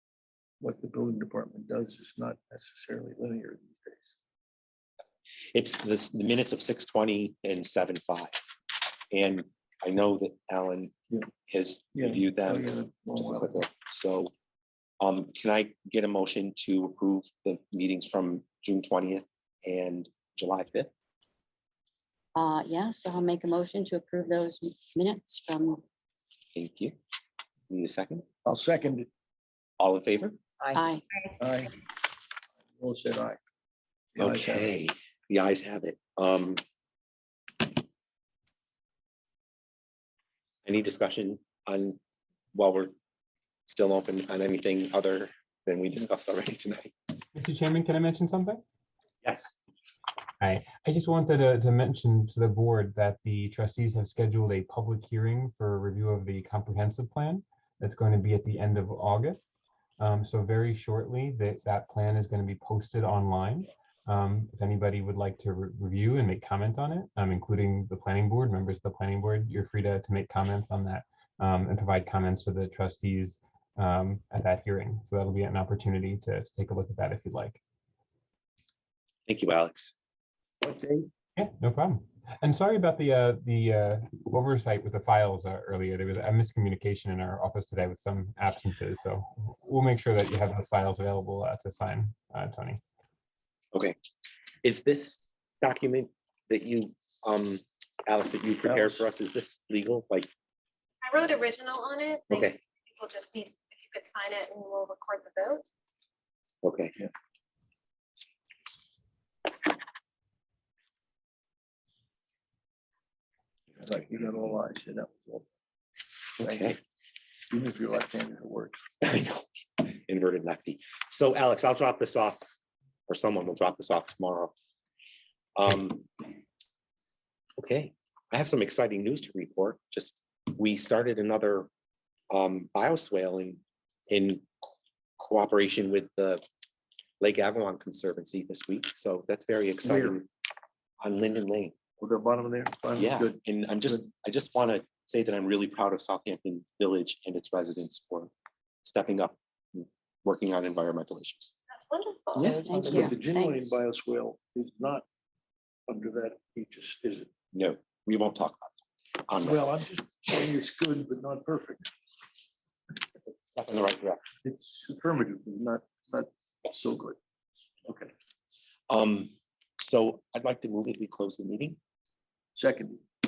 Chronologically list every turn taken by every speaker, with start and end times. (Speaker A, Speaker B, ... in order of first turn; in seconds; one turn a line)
Speaker A: 0.6-4.1
Speaker B: 5.5-8.4
Speaker B: 9.1-10.9
Speaker B: 11.5-14.3
Speaker A: 11.9-13.6
Speaker B: 15.0-20.9
Speaker C: 22.4-25.8
Speaker B: 26.6-27.0
Speaker B: 27.7-28.2
Speaker A: 28.4-29.1
Speaker B: 29.8-30.4
Speaker C: 30.7-31.0
Speaker A: 31.4-31.8
Speaker A: 32.7-33.4
Speaker A: 34.2-34.7
Speaker B: 34.2-36.6
Speaker B: 40.6-42.0
Speaker B: 42.5-42.9
Speaker B: 43.7-47.0
Speaker D: 47.4-48.6
Speaker B: 49.2-49.5
Speaker D: 50.4-77.6
Speaker B: 79.3-79.9
Speaker A: 80.6-81.1
Speaker D: 81.4-92.8
Speaker B: 94.6-100.3
Speaker A: 98.6-99.1
Speaker E: 101.0-105.7
Speaker B: 102.3-102.6
Speaker B: 106.6-106.9
Speaker A: 113.8-115.5
Speaker A: 116.4-116.7
Speaker B: 116.4-116.8
Speaker A: 117.5-118.8
Speaker B: 119.0-122.5
Speaker B: 123.1-124.5
Speaker B: 125.6-126.3
Speaker B: 127.6-131.7
Speaker B: 132.3-136.4
Speaker B: 137.2-140.3
Speaker A: 139.8-140.2
Speaker B: 141.0-141.8
Speaker A: 142.0-144.0
Speaker B: 142.9-148.3
Speaker B: 148.8-151.5
Speaker E: 151.7-152.6
Speaker A: 152.4-155.1
Speaker C: 152.5-153.7
Speaker A: 155.9-157.3
Speaker B: 157.5-159.7
Speaker A: 159.4-161.9
Speaker B: 163.5-164.2
Speaker A: 164.4-167.2
Speaker B: 168.9-171.8
Speaker A: 172.6-173.1